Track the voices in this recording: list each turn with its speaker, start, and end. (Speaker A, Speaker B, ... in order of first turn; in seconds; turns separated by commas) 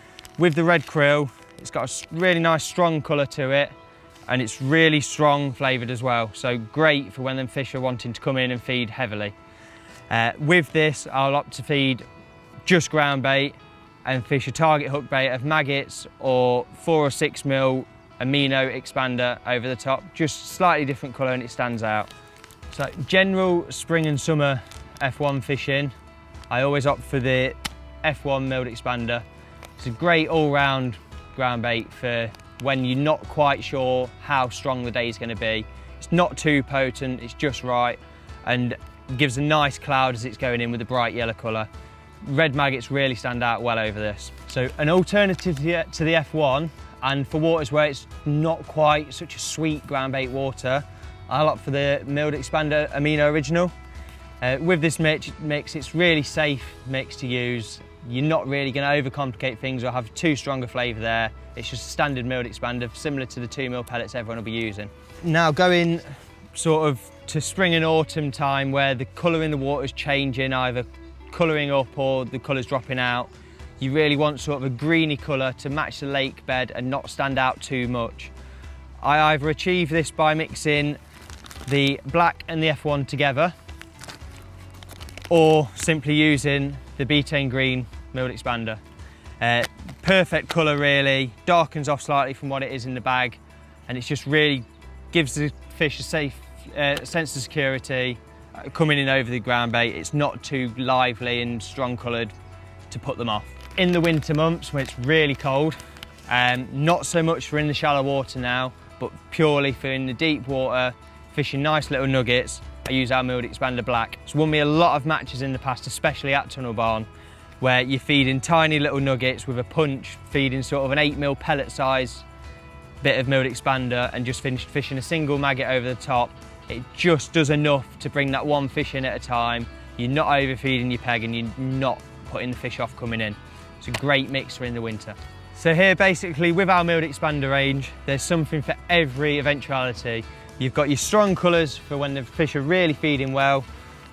Speaker A: 0.4-3.7, Speaker A: 4.3-9.3, Speaker A: 10.1-12.0, Speaker A: 12.7-22.1, Speaker A: 22.7-25.9, Speaker A: 26.5-29.2, Speaker A: 29.8-41.7, Speaker A: 42.2-53.7, Speaker A: 54.4-78.3, Speaker A: 79.0-81.0, Speaker A: 81.7-83.5, Speaker A: 85.3-88.8, Speaker A: 89.4-102.3, Speaker A: 102.9-105.8, Speaker A: 106.3-117.1, Speaker A: 117.6-122.2, Speaker A: 123.0-143.7